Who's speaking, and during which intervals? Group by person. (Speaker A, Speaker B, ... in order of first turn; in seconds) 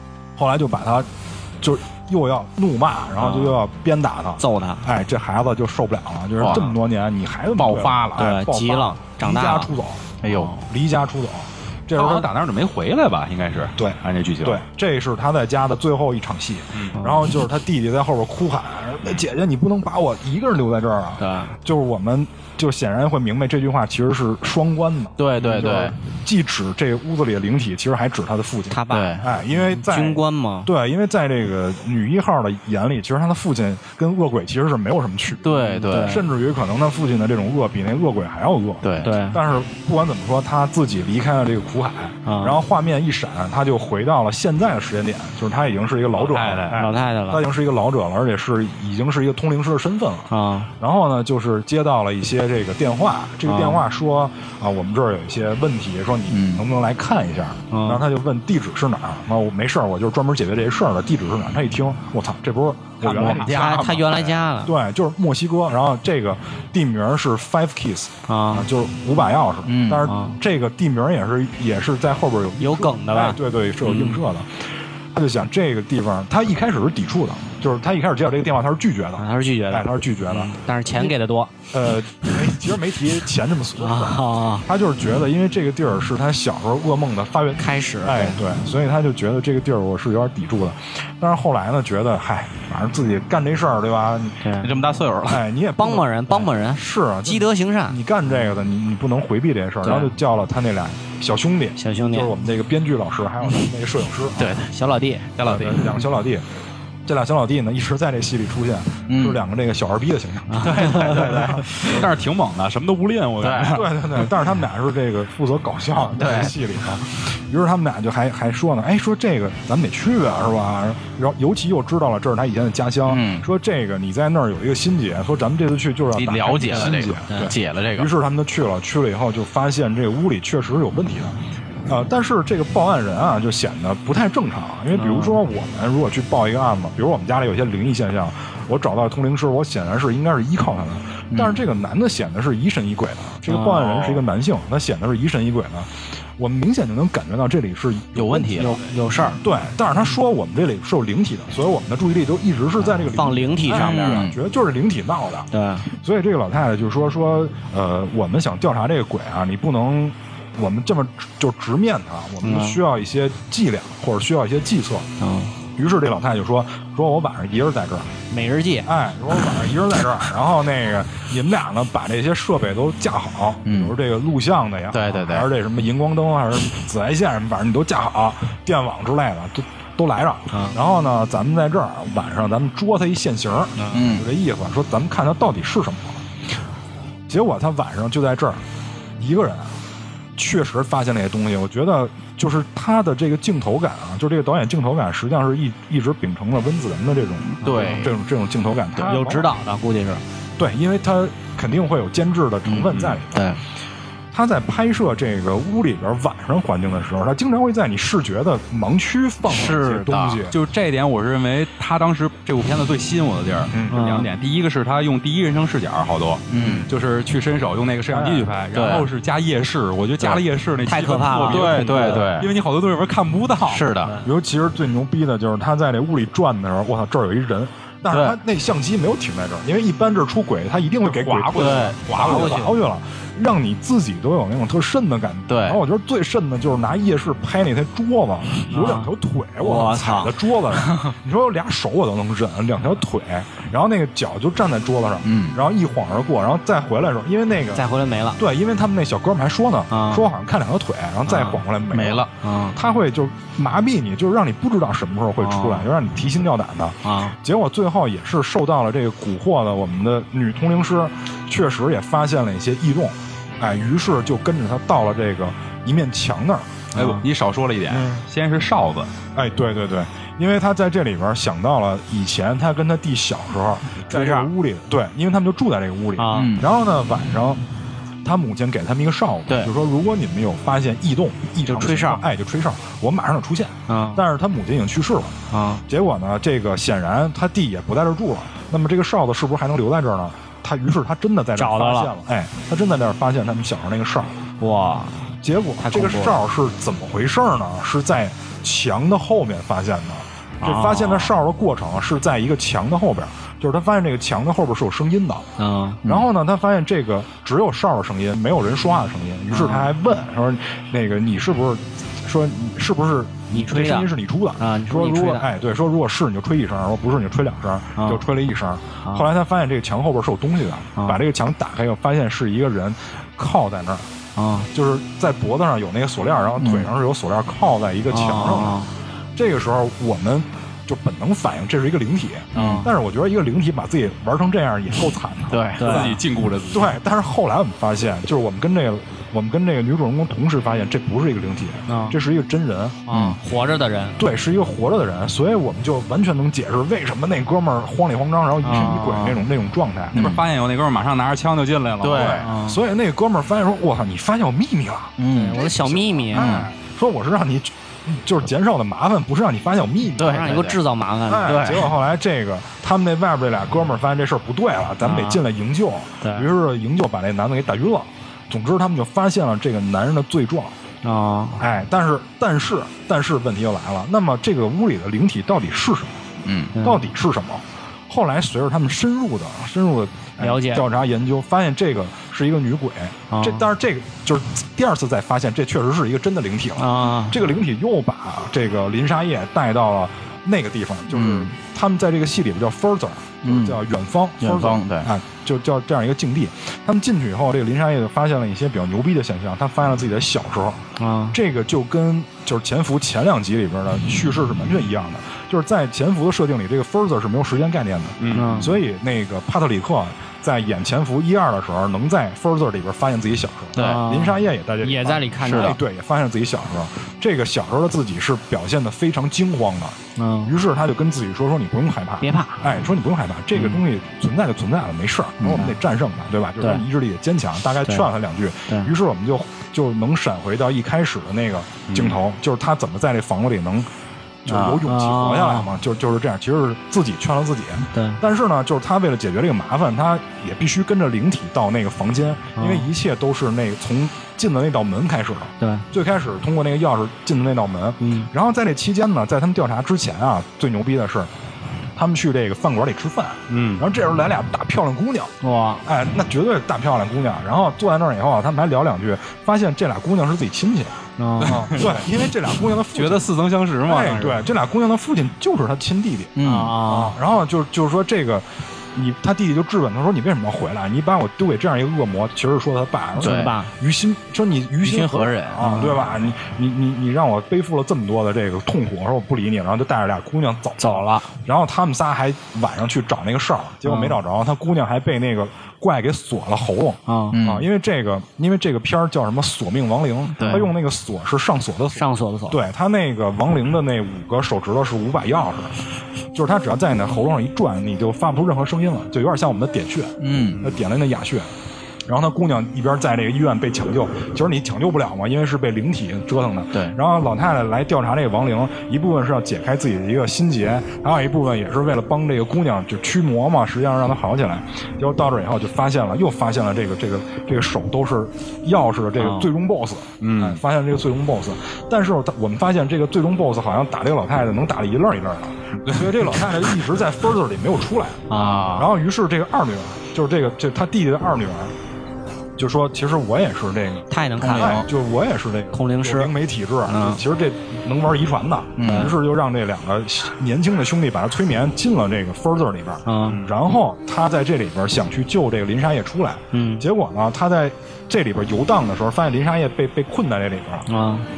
Speaker A: 0.4-1.1, 1.6-12.3, 13.8-81.1, 81.7-94.5, 95.3-104.5, 105.4-106.5, 107.1-112.1, 113.7-148.5, 149.4-165.1, 165.8-168.1, 168.8-186.2, 187.3-188.6, 189.2-189.8, 190.4-199.5, 200.6-203.5, 204.3-210.6, 213.7-214.1, 224.2-247.8, 248.4-266.9, 267.9-268.2, 269.4-277.6, 278.2-285.4, 285.9-294.4, 295.4-305.5, 306.1-324.1, 324.7-328.8, 329.4-335.6, 336.7-343.0, 344.2-350.2, 352.6-360.6, 361.3-370.8, 371.6-376.2, 376.8-433.9, 434.4-451.3, 451.9-455.3, 455.9-463.3, 463.9-495.8, 496.3-501.5, 502.1-531.7, 532.6-550.9
Speaker B: 3.2-3.6, 4.4-4.8, 8.2-9.7, 10.3-10.7, 17.0-17.2, 21.2-21.5, 28.7-30.7, 35.5-36.2, 39.0-39.4, 42.3-42.6, 46.7-47.4, 50.3-50.7, 53.5-53.8, 57.7-58.0, 63.1-64.7, 68.3-68.7, 70.0-70.4, 72.6-74.2, 79.2-81.5, 82.2-82.6, 83.8-84.7, 87.6-88.4, 94.4-94.7, 95.8-98.0, 99.8-100.1, 101.8-102.4, 104.6-105.2, 110.5-111.3, 126.7-127.5, 134.9-135.4, 143.5-144.1, 148.4-149.4, 153.0-154.3, 155.5-155.9, 162.4-162.8, 165.2-165.5, 168.3-168.9, 180.5-180.8, 183.8-184.1, 199.0-200.2, 213.9-214.3, 220.9-222.3, 224.0-224.3, 231.6-232.8, 238.7-240.3, 247.8-248.4, 249.9-250.3, 252.4-252.8, 255.4-255.9, 257.1-257.4, 266.9-267.2, 274.1-274.5, 276.2-276.5, 281.6-282.2, 283.9-284.2, 285.5-285.8, 291.6-292.1, 294.6-295.2, 295.8-296.4, 300.6-301.4, 305.6-306.0, 309.5-309.9, 313.5-315.5, 324.4-324.7, 328.1-328.9, 332.5-332.9, 335.8-336.2, 341.9-342.2, 343.1-344.2, 348.6-349.4, 352.2-352.8, 355.3-356.6, 360.2-361.7, 365.0-365.4, 366.2-366.5, 371.0-371.6, 376.8-377.0, 380.4-380.8, 383.3-383.6, 386.8-387.4, 401.0-401.4, 408.3-408.7, 413.8-415.8, 420.2-420.6, 422.2-422.8, 425.5-425.8, 434.9-435.7, 437.9-438.2, 442.6-442.9, 445.6-445.9, 448.0-448.3, 455.4-455.8, 461.2-461.6, 466.4-467.2, 473.2-473.7, 475.7-475.9, 480.8-481.2, 483.9-484.2, 487.1-487.4, 491.9-492.6, 519.2-519.5, 528.3-528.9, 534.1-534.9, 535.7-536.3, 536.9-537.2, 538.9-539.1, 543.1-543.4, 546.5-546.9, 550.9-551.3
Speaker C: 6.4-6.8, 7.6-8.3, 10.2-10.6, 25.2-25.9, 28.9-29.2, 35.4-36.2, 38.8-39.1, 56.3-56.6, 63.0-64.3, 69.7-70.1, 94.6-95.4, 104.3-104.7, 109.1-109.4, 110.6-112.1, 113.4-114.3, 116.1-116.5, 123.1-123.5, 126.1-128.1, 141.3-141.6, 148.2-148.8, 153.7-154.4, 173.7-173.9, 174.9-175.5, 183.9-184.2, 197.5-198.1, 202.7-203.6, 209.4-210.5, 216.5-216.9, 218.7-219.1, 221.5-222.5, 223.7-224.2, 228.1-228.4, 231.6-232.0, 235.5-235.8, 245.2-245.6, 251.3-252.3, 276.3-276.7, 326.6-326.9, 332.6-332.9, 335.5-336.1, 343.1-343.4, 350.1-350.4, 352.0-352.5, 355.2-355.7, 356.3-356.7, 360.2-360.8, 361.4-361.9, 376.4-376.7, 391.1-391.5, 393.4-393.8, 394.4-395.1, 413.8-414.0, 415.4-415.8, 425.4-425.7, 434.5-434.8, 466.4-466.8, 473.2-473.6, 474.8-475.9, 487.3-487.7, 490.4-490.7, 500.2-500.6, 528.3-528.9, 534.4-534.9, 538.8-539.1
Speaker D: 11.9-14.6, 46.1-46.8, 105.4-105.8, 111.8-113.9, 202.9-203.2, 210.5-223.9, 231.0-232.7, 266.9-269.1, 335.8-336.9, 350.1-352.5, 408.2-408.7, 431.9-432.1, 453.5-453.9, 461.4-462.3, 462.9-464.4, 520.2-520.6